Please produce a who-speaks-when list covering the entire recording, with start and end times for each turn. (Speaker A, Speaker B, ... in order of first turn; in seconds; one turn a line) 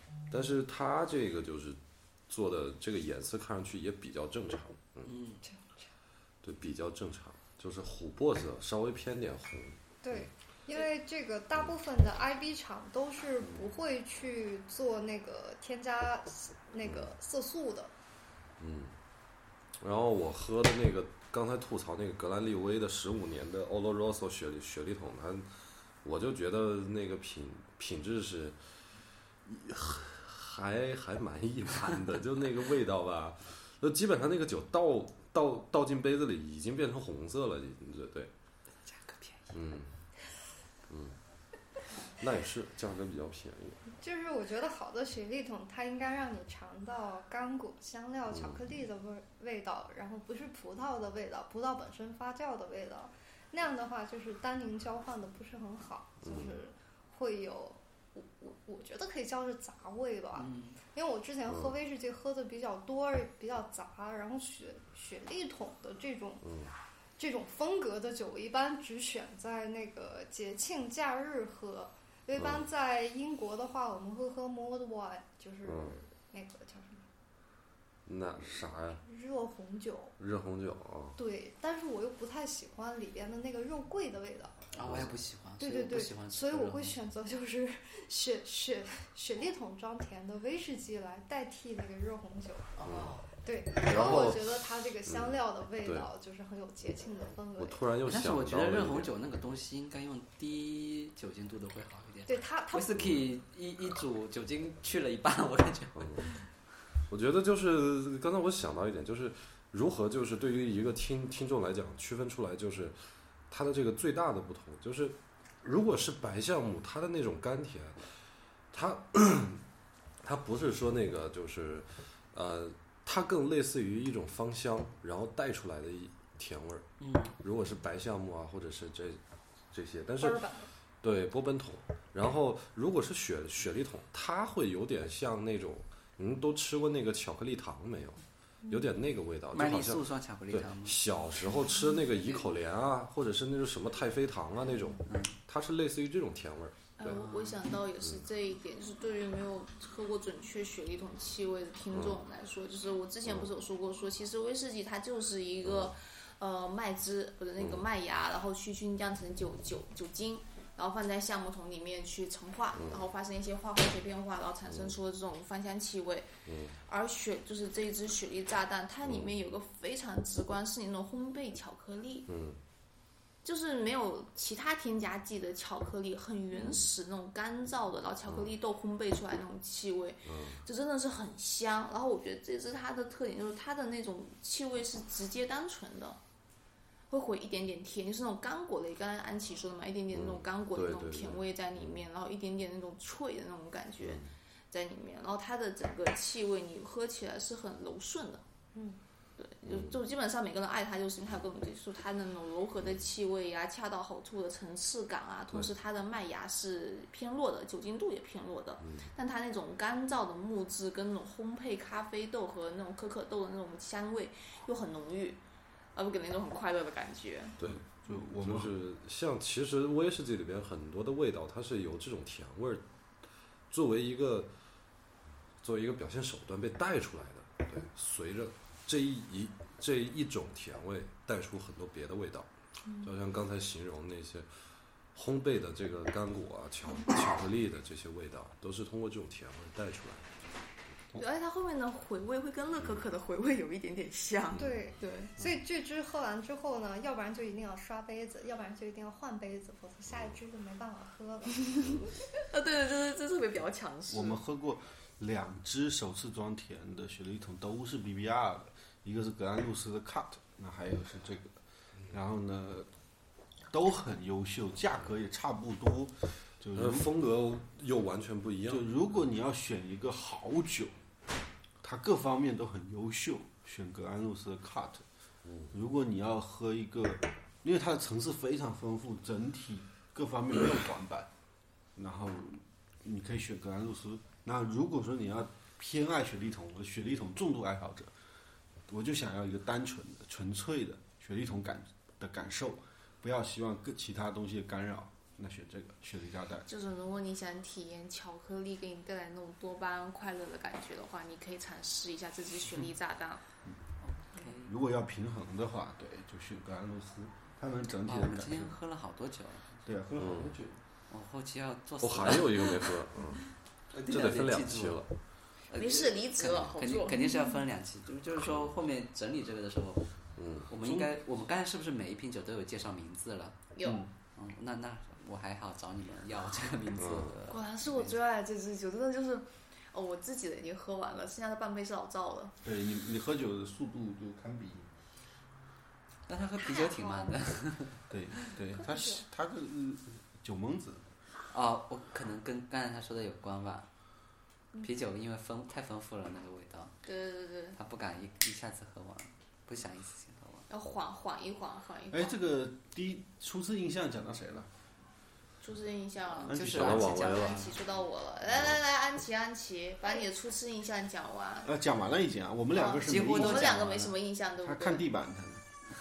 Speaker A: 0.3-5.1
Speaker B: 5.0-5.4
Speaker C: 5.4-5.9
Speaker A: 6.4-10.3
Speaker C: 10.0-17.9
Speaker A: 13.4-13.7
Speaker A: 16.8-17.1
Speaker A: 18.6-18.9
Speaker A: 19.8-25.5
Speaker A: 26.0-28.6
Speaker A: 29.4-38.3
Speaker B: 38.8-39.7
Speaker A: 39.5-39.9
Speaker A: 40.9-41.2
Speaker A: 42.1-43.8
Speaker C: 44.0-66.5
Speaker A: 48.3-48.6
Speaker A: 56.2-56.6
Speaker B: 60.3-60.8
Speaker A: 61.5-61.7
Speaker A: 66.4-66.7
Speaker C: 67.2-77.0
Speaker A: 72.3-72.7
Speaker A: 75.6-76.0
Speaker A: 78.0-79.0
Speaker C: 79.0-80.1
Speaker A: 80.2-81.2
Speaker C: 81.2-84.7
Speaker B: 84.7-87.0
Speaker A: 84.8-85.1
Speaker C: 85.6-92.7
Speaker B: 92.8-93.3
Speaker A: 92.8-93.2
Speaker C: 93.4-97.9
Speaker A: 93.8-96.1
Speaker A: 97.6-99.1
Speaker B: 98.0-106.4
Speaker C: 102.2-102.9
Speaker A: 106.0-106.3
Speaker A: 107.1-113.0
Speaker A: 113.5-118.0
Speaker A: 118.7-119.6
Speaker A: 120.2-129.2
Speaker B: 127.0-127.3
Speaker A: 129.7-130.5
Speaker C: 130.2-130.7
Speaker A: 131.0-147.2
Speaker B: 139.5-141.0
Speaker B: 145.1-145.4
Speaker D: 147.0-166.3
Speaker B: 147.1-147.6
Speaker A: 148.0-148.2
Speaker A: 151.9-152.2
Speaker A: 153.2-153.5
Speaker A: 155.6-156.0
Speaker A: 157.6-157.8
Speaker A: 162.7-163.1
Speaker A: 164.7-164.9
Speaker A: 166.4-166.8
Speaker D: 166.9-172.3
Speaker A: 169.0-169.3
Speaker A: 172.3-172.6
Speaker D: 173.4-186.2
Speaker A: 176.5-176.9
Speaker A: 178.2-178.5
Speaker A: 180.2-180.6
Speaker D: 187.1-198.4
Speaker A: 190.1-192.0
Speaker A: 194.0-194.3
Speaker C: 198.7-199.0
Speaker D: 199.4-215.4
Speaker A: 199.6-200.0
Speaker A: 208.8-209.1
Speaker D: 215.9-217.6
Speaker A: 217.6-222.8
Speaker E: 217.7-218.7
Speaker A: 223.7-224.5
Speaker A: 225.6-232.5
Speaker A: 233.0-234.5
Speaker A: 235.1-240.3
Speaker D: 241.2-245.3
Speaker A: 244.5-244.9
Speaker C: 244.6-252.0
Speaker A: 250.1-250.3
Speaker A: 251.8-252.1
Speaker D: 252.4-254.4
Speaker E: 254.1-261.6
Speaker E: 262.1-262.9
Speaker E: 263.7-267.1
Speaker A: 266.7-268.9
Speaker E: 268.7-270.9
Speaker E: 271.8-275.0
Speaker A: 275.4-275.7
Speaker E: 275.7-281.3
Speaker E: 281.9-288.1
Speaker E: 288.9-296.7
Speaker D: 296.7-303.4
Speaker B: 304.0-304.7
Speaker E: 304.6-308.8
Speaker B: 308.1-309.9
Speaker E: 309.8-310.8
Speaker A: 310.2-310.6
Speaker B: 311.1-312.9
Speaker A: 312.0-313.4
Speaker B: 313.9-315.1
Speaker A: 314.1-315.1
Speaker B: 315.7-320.1
Speaker D: 315.7-317.2
Speaker A: 318.4-318.7
Speaker A: 320.4-320.7
Speaker B: 320.7-323.6
Speaker E: 320.8-321.1
Speaker D: 323.7-324.0
Speaker E: 323.8-324.1
Speaker B: 324.3-328.1
Speaker A: 327.0-327.4
Speaker D: 327.5-332.5
Speaker E: 332.6-334.9
Speaker B: 336.3-338.0
Speaker D: 336.6-337.3
Speaker E: 338.1-341.0
Speaker D: 338.8-339.2
Speaker B: 341.5-343.9
Speaker B: 344.8-346.9
Speaker D: 347.0-347.8
Speaker B: 347.7-350.6
Speaker D: 350.7-352.4
Speaker E: 352.1-354.7
Speaker D: 355.6-361.7
Speaker E: 356.5-357.0
Speaker B: 356.5-357.7
Speaker A: 356.7-357.7
Speaker E: 361.6-363.8
Speaker D: 362.7-365.1
Speaker B: 363.0-364.1
Speaker E: 364.6-365.6